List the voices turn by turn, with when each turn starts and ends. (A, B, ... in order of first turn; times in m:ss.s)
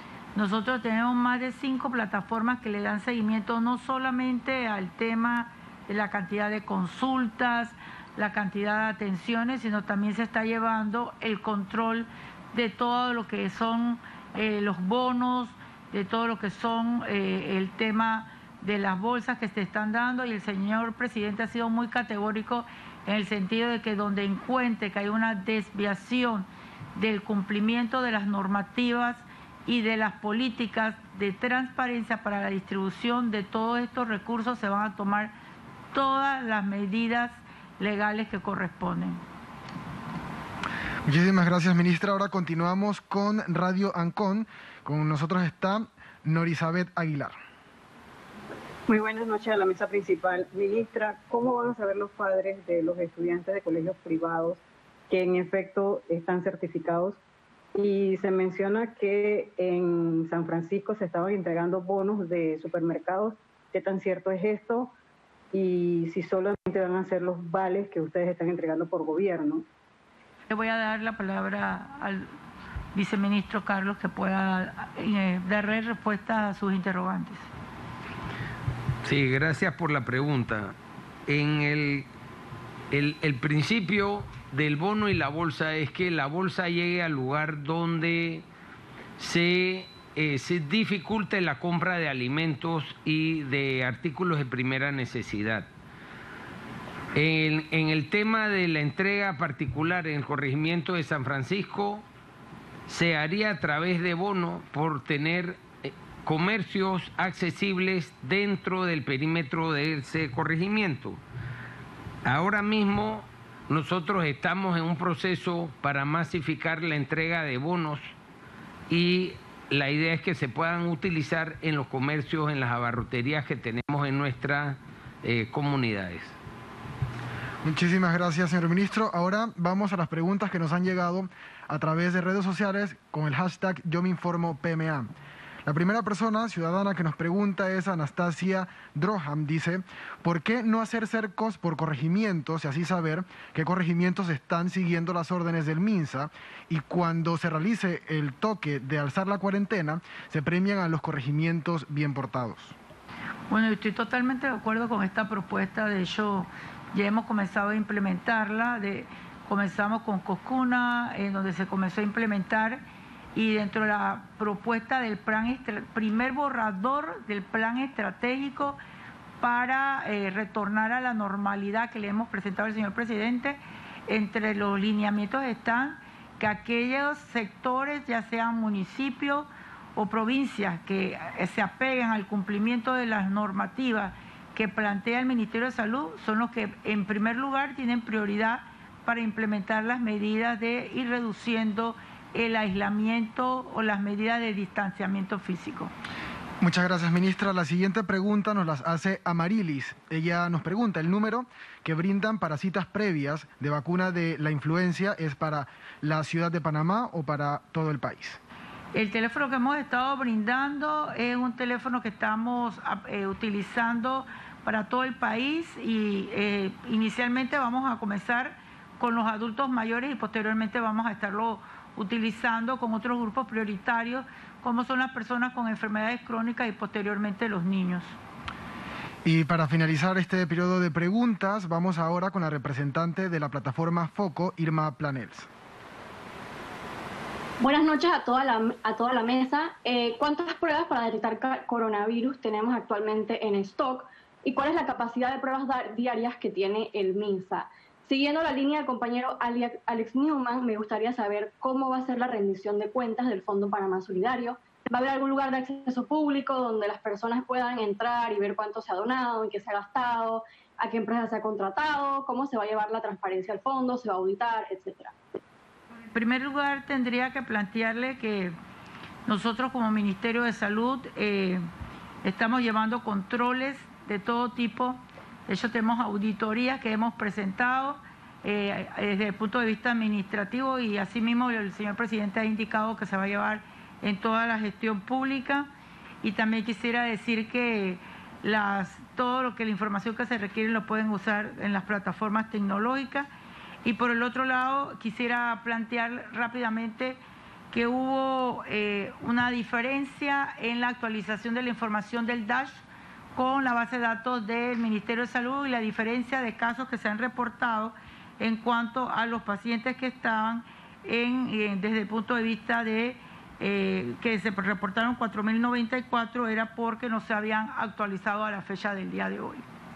0:00.3-0:35.3 A
0:35.9-0:39.2 A
0:41.0-0:47.3 B
0:48.9-0:57.2 C
0:57.8-1:04.9 C
1:05.5-1:09.6 C
1:10.5-1:12.3 A
1:12.9-1:17.4 A
1:19.0-1:20.8 D
1:21.3-1:22.1 D
1:22.9-1:28.4 D
1:29.2-1:35.7 D
1:37.1-1:42.0 D
1:42.9-1:51.2 D
1:52.2-1:58.1 D
1:58.9-2:06.4 D
2:07.6-2:15.1 B
2:15.6-2:32.8 B
2:33.5-2:42.8 A
2:43.3-2:48.8 A
2:49.4-3:15.9 A
3:16.6-3:28.4 B
3:28.9-3:48.2 A
3:49.2-3:55.5 B
3:57.6-4:25.2 E
4:26.1-4:28.6 A
4:29.2-4:31.6 A
4:32.2-4:45.7 A
4:46.2-4:53.3 A
4:53.8-4:57.2 A
4:57.7-5:02.8 A
5:03.3-5:19.6 A